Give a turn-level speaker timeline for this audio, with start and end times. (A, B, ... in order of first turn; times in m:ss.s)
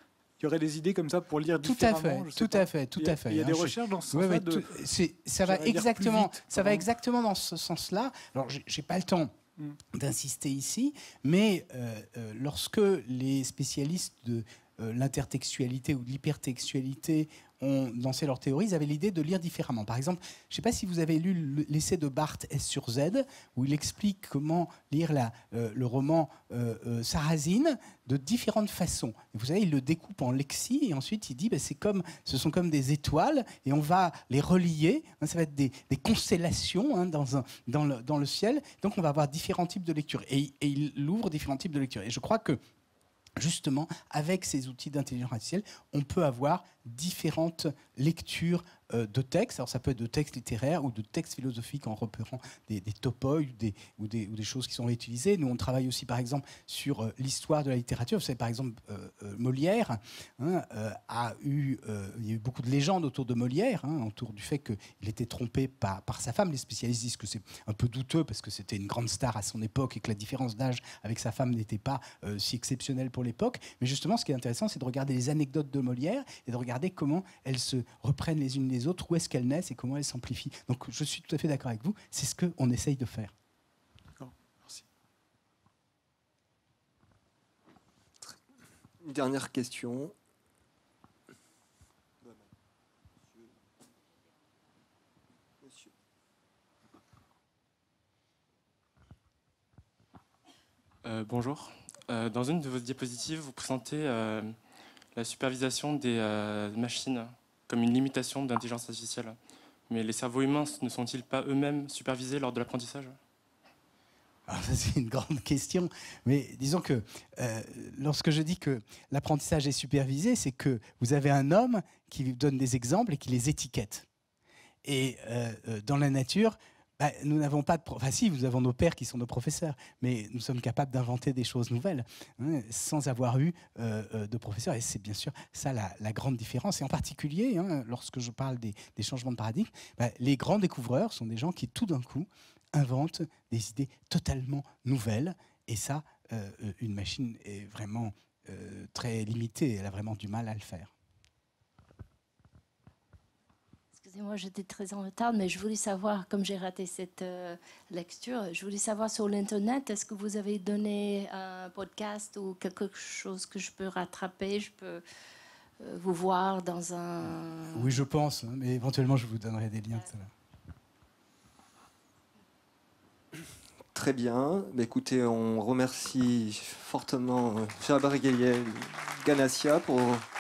0:00.4-0:04.7 A
0:01.6-0:09.3 B
0:05.4-0:06.9 A
0:09.9-0:42.6 B
0:43.4-1:23.3 B
1:24.2-1:24.8 A
1:29.0-1:30.1 C
1:32.2-1:32.5 C
1:35.6-1:35.9 C
1:41.0-1:44.6 D
1:45.1-1:49.4 D
1:49.9-1:53.2 D
1:54.5-2:04.0 B
2:04.8-2:30.9 B
2:34.0-2:45.0 E
2:45.8-2:48.0 E
2:47.7-2:50.3 B
2:53.9-3:00.2 C